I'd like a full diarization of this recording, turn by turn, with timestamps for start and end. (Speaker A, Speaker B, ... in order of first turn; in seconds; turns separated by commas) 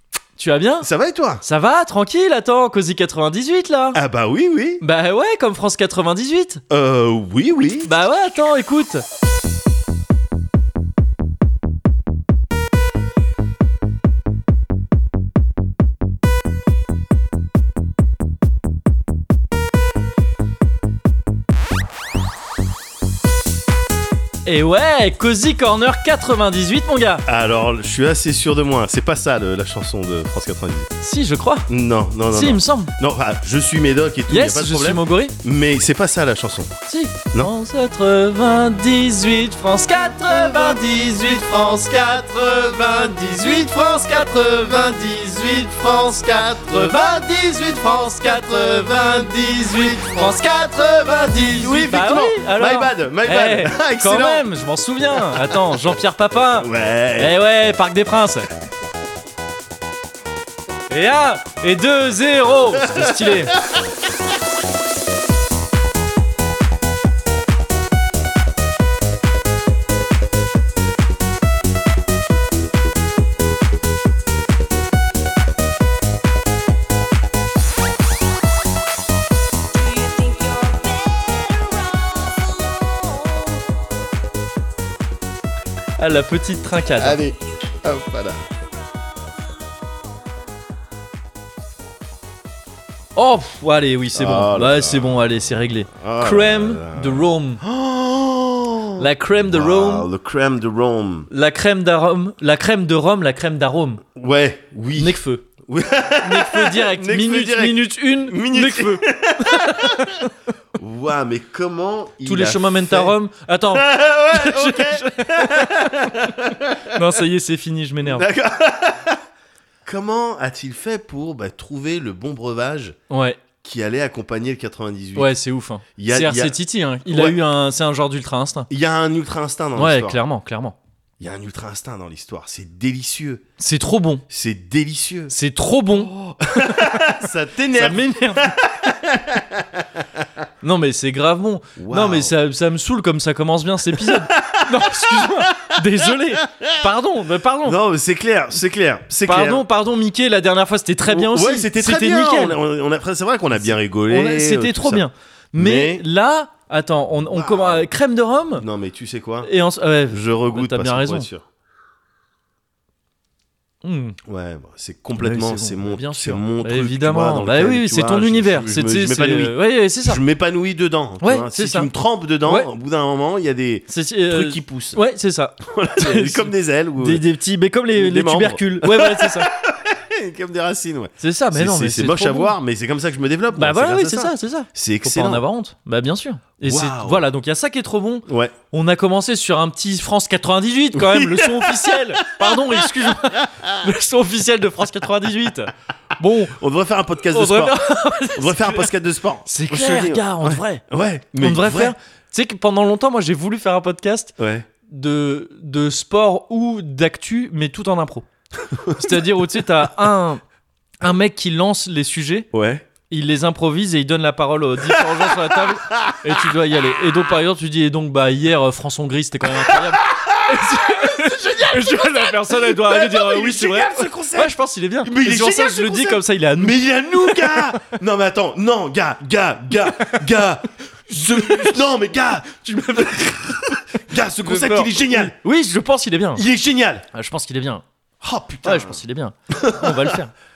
Speaker A: 0.3-0.9, Speaker B: 0.8-1.4, Speaker A: 1.4-4.0, Speaker B: 3.9-4.8, Speaker A: 4.8-6.6, Speaker B: 6.7-7.9, Speaker A: 7.8-9.0, Speaker A: 24.4-27.2, Speaker B: 27.2-30.9, Speaker A: 31.0-31.7, Speaker B: 31.7-36.7, Speaker A: 32.3-32.9, Speaker A: 34.3-35.4, Speaker A: 36.9-58.5, Speaker B: 51.5-54.4, Speaker B: 56.5-57.3, Speaker A: 60.9-63.6, Speaker B: 62.7-63.8, Speaker C: 79.7-83.6, Speaker A: 86.0-87.2, Speaker B: 86.9-88.4, Speaker A: 93.2-97.6, Speaker B: 94.1-95.3, Speaker B: 95.9-101.3, Speaker A: 99.0-100.1, Speaker A: 101.3-104.0, Speaker B: 104.1-110.2, Speaker A: 105.0-105.5, Speaker A: 106.2-110.5, Speaker B: 110.8-113.1, Speaker A: 112.2-116.4, Speaker B: 113.7-117.1, Speaker A: 116.9-118.2, Speaker B: 118.0-119.2, Speaker B: 119.8-122.9, Speaker A: 123.1-123.4, Speaker B: 123.6-125.3, Speaker A: 125.2-128.7, Speaker B: 126.0-126.5, Speaker B: 127.0-127.4, Speaker B: 128.7-130.2, Speaker A: 129.8-130.8, Speaker B: 131.2-133.4, Speaker A: 133.6-134.2, Speaker B: 134.3-135.3, Speaker A: 135.3-137.1, Speaker B: 135.9-140.3, Speaker A: 137.7-138.5, Speaker A: 140.6-147.8, Speaker B: 141.8-142.3, Speaker B: 143.9-146.9, Speaker B: 147.6-149.6, Speaker A: 149.2-152.6, Speaker B: 151.1-156.0, Speaker A: 153.5-158.6, Speaker B: 157.3-157.9, Speaker B: 158.6-159.5, Speaker A: 159.4-161.3, Speaker B: 160.1-161.4, Speaker A: 163.8-164.2, Speaker B: 164.3-175.0, Speaker A: 165.2-170.2, Speaker A: 171.2-171.9, Speaker A: 172.4-172.7, Speaker A: 173.9-179.5, Speaker B: 175.6-177.2, Speaker B: 177.9-185.4, Speaker A: 181.2-182.5, Speaker A: 183.5-196.6, Speaker B: 186.6-187.2, Speaker B: 188.3-188.5, Speaker B: 190.9-193.7, Speaker B: 196.5-201.9, Speaker A: 197.2-198.9, Speaker A: 199.4-200.8, Speaker A: 201.4-204.3, Speaker B: 204.4-204.7, Speaker A: 204.9-208.3, Speaker B: 208.6-209.2, Speaker A: 208.9-210.4, Speaker A: 211.0-212.5, Speaker B: 212.5-212.8, Speaker A: 213.1-227.7, Speaker B: 215.0-216.3, Speaker B: 219.5-235.3, Speaker A: 230.0-230.2, Speaker A: 231.1-231.8, Speaker A: 232.6-236.4, Speaker B: 236.3-237.0, Speaker A: 237.1-237.8, Speaker B: 238.2-239.0, Speaker A: 238.6-240.3, Speaker B: 239.5-240.2